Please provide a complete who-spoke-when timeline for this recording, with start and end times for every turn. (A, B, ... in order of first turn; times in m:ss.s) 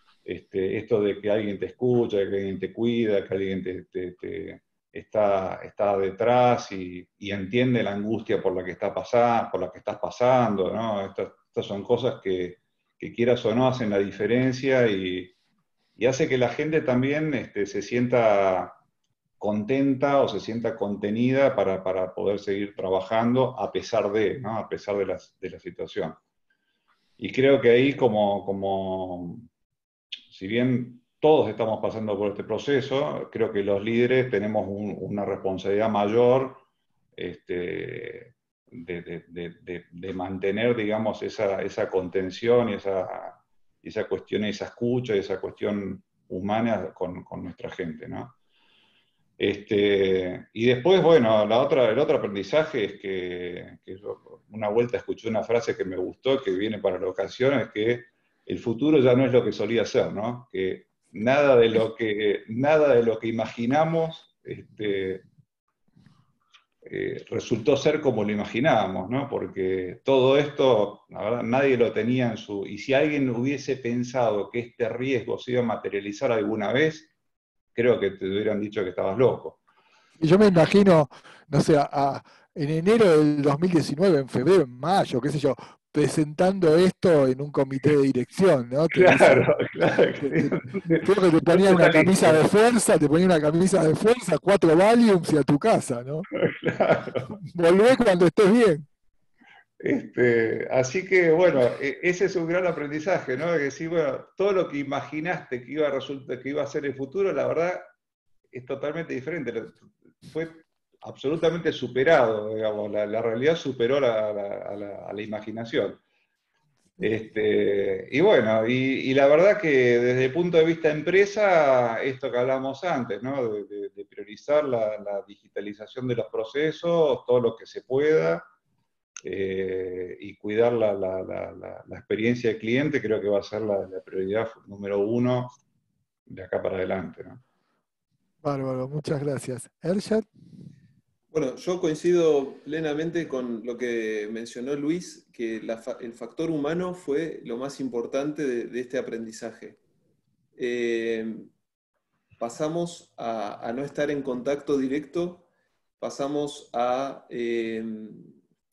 0:00.2-0:15.4 A
0:16.0-0:18.8 A
0:19.4-0:26.2 A
0:27.2-0:29.5 A
0:30.3-0:36.6 A
0:37.2-0:48.4 A
0:49.4-1:05.2 A
1:06.8-1:17.1 A
1:17.7-1:19.6 A
1:20.2-1:29.5 B
1:28.9-1:32.4 A
1:30.2-1:36.3 B
1:36.4-1:37.3 A
1:37.3-1:38.9 B
1:39.8-1:47.9 A
1:48.5-1:56.0 A
1:57.0-2:08.4 A
2:09.2-2:15.6 A
2:16.3-2:17.4 A
2:18.4-2:20.2 B
2:21.3-2:29.8 C
2:30.6-2:31.5 C
2:32.4-2:35.5 C
2:36.0-2:38.3 C